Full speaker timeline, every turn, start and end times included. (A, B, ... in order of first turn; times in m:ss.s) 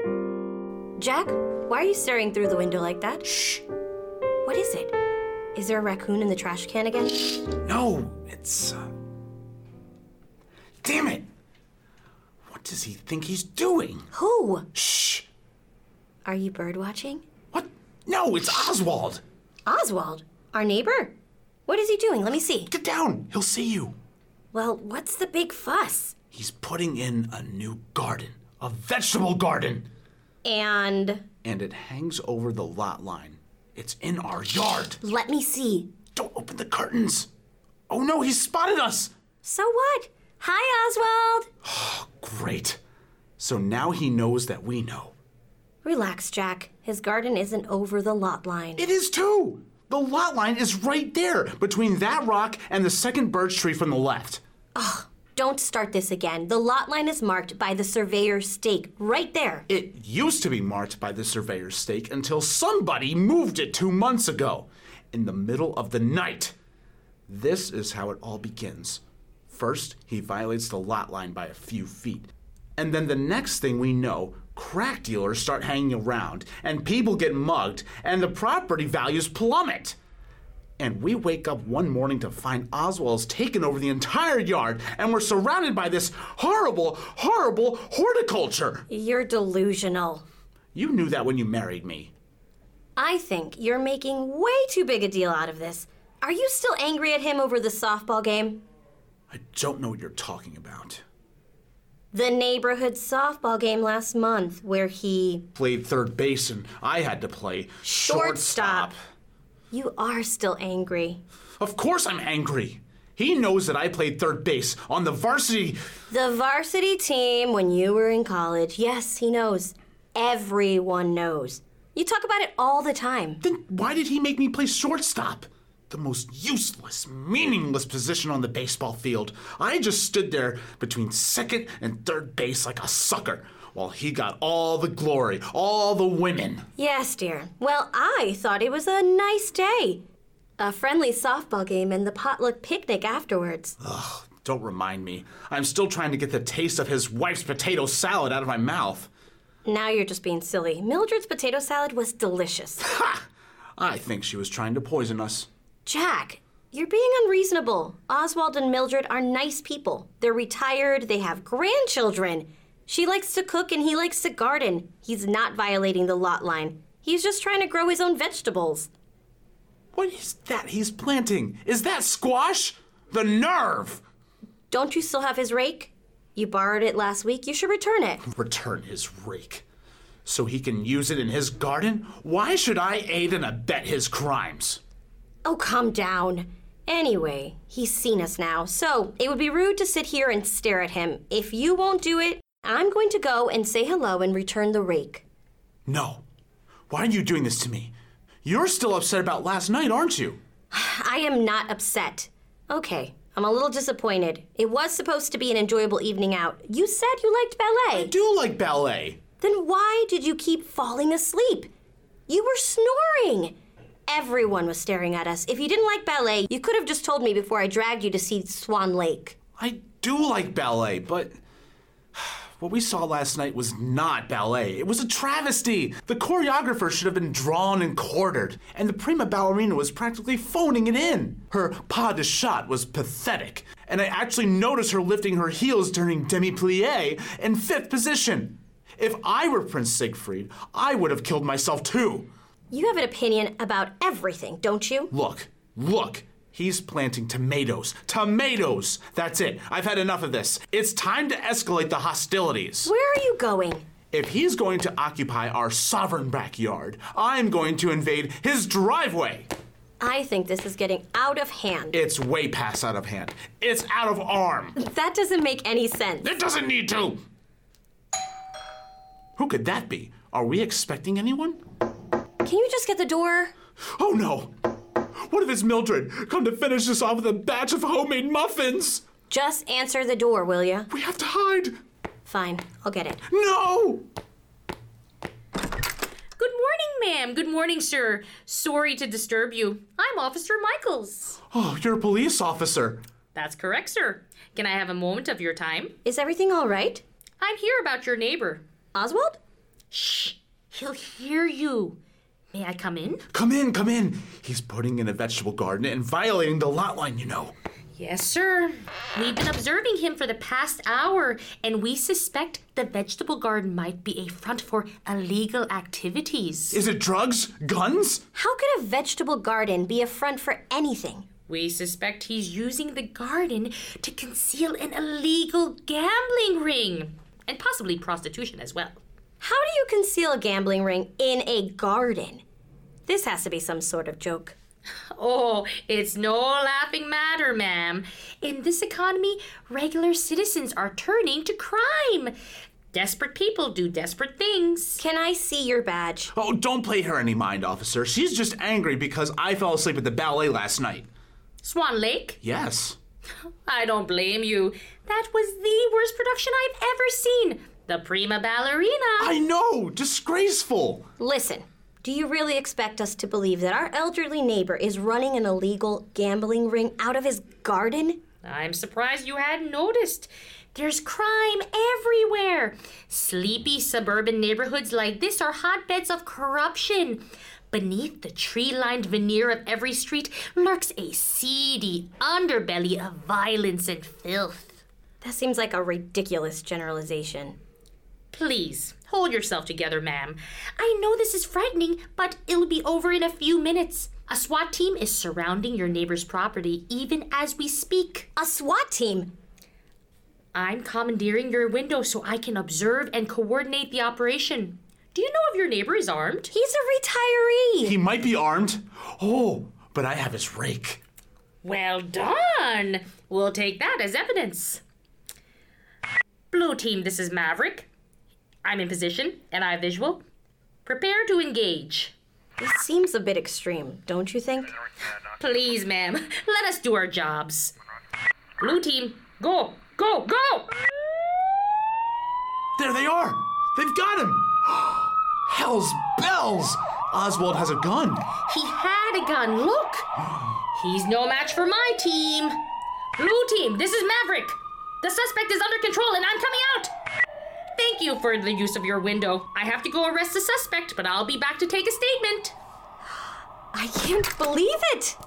0:01.0-0:03.4 A
0:04.5-0:04.9 A
0:05.6-0:07.4 A
0:07.6-0:08.9 B
0:10.8-0:11.3 B
0:12.5-0:14.1 B
0:14.1-0:14.7 A
0:14.7-0:15.3 B
0:16.2-0:17.2 A
0:17.5-0:19.2 B
0:19.7-0:21.2 A
0:21.7-0:22.7 A
0:22.7-0:24.0 B
0:24.5-0:26.2 A
0:26.3-0:29.9 B
0:30.4-0:31.2 A
0:31.4-0:35.0 B
0:35.0-0:35.9 A
0:36.1-0:37.3 B
0:37.9-0:39.1 B
0:39.4-0:41.5 A
0:41.6-0:42.8 B
0:43.4-0:45.1 B
0:45.8-0:48.9 A
0:48.8-0:54.4 B
0:54.8-0:59.6 A
0:59.7-1:06.5 B
1:07.3-1:20.0 B
1:20.8-1:28.8 B
1:28.9-1:30.2 A
1:30.7-1:32.1 B
1:33.0-1:38.6 A
1:39.3-1:41.0 B
1:42.1-1:45.4 A
1:45.6-1:49.0 B
1:47.8-1:48.9 A
1:49.7-1:51.2 A
1:51.6-1:55.8 B
1:56.1-2:03.4 A
2:03.4-2:16.6 B
2:16.8-2:20.0 A
2:20.6-2:23.8 A
2:23.8-2:29.1 B
2:29.6-2:32.8 A
2:32.8-2:33.3 B
2:33.8-2:35.5 B
2:35.9-2:48.9 A
2:49.9-2:54.0 B
2:54.7-2:58.2 A
2:58.2-2:59.6 B
3:00.2-3:04.8 B
3:05.4-3:15.2 A
3:15.9-3:16.2 B
3:16.9-3:17.9 B
3:18.4-3:20.4 B
3:20.7-3:28.1 A
3:27.9-3:29.2 B
3:29.4-3:31.7 A
3:32.3-3:33.6 A
3:34.1-3:39.4 A
3:39.6-3:41.3 B
3:42.2-4:02.3 B
4:02.7-4:05.1 A
4:05.1-4:12.9 B
4:12.8-4:13.9 A
4:14.1-4:19.5 B
4:20.0-4:22.0 A
4:21.9-4:24.8 B
4:24.8-4:26.4 A
4:26.2-4:27.2 B
4:29.4-4:31.6 B
4:32.4-4:33.5 A
4:33.9-4:34.5 B
4:35.3-4:39.1 B
4:39.3-4:40.9 A
4:40.9-4:41.8 B
4:42.3-4:43.2 A
4:43.3-4:44.1 B
4:46.4-4:51.4 C
4:51.5-4:53.0 B
4:53.4-4:56.0 C
4:56.0-4:57.0 A
4:57.4-4:58.6 C
4:59.0-4:59.4 A
4:59.9-5:02.0 C
5:02.5-5:03.2 C
5:03.3-5:07.5 B
5:08.0-5:16.8 C
5:16.7-5:18.2 B
5:18.4-5:21.2 A
5:21.5-5:29.0 C
5:29.4-5:32.4 A
5:33.1-5:34.6 A
5:35.1-5:42.3 C
5:42.9-5:45.0 C
5:45.0-5:46.3 A
5:46.3-5:51.1 B
5:51.6-5:52.4 C
5:52.4-5:53.0 B
5:53.6-5:59.3 C
5:59.2-6:01.1 B
6:01.2-6:08.2 A
6:08.4-6:24.8 C
6:25.2-6:27.6 A
6:28.3-6:38.3 C
6:38.4-6:39.3 A
6:40.5-6:46.5 C
6:46.5-6:48.0 A
6:47.8-6:51.0 B
6:51.6-6:54.8 C
6:56.5-6:57.9 C
6:58.6-7:00.2 C
7:00.8-7:02.1 C
7:02.6-7:04.7 A
7:05.4-7:07.8 C
7:08.6-7:10.7 C
7:12.8-7:18.3 B
7:18.4-7:20.1 C
7:20.7-7:22.6 C
7:23.2-7:26.9 C
7:27.8-7:32.6 C
7:33.7-7:35.2 A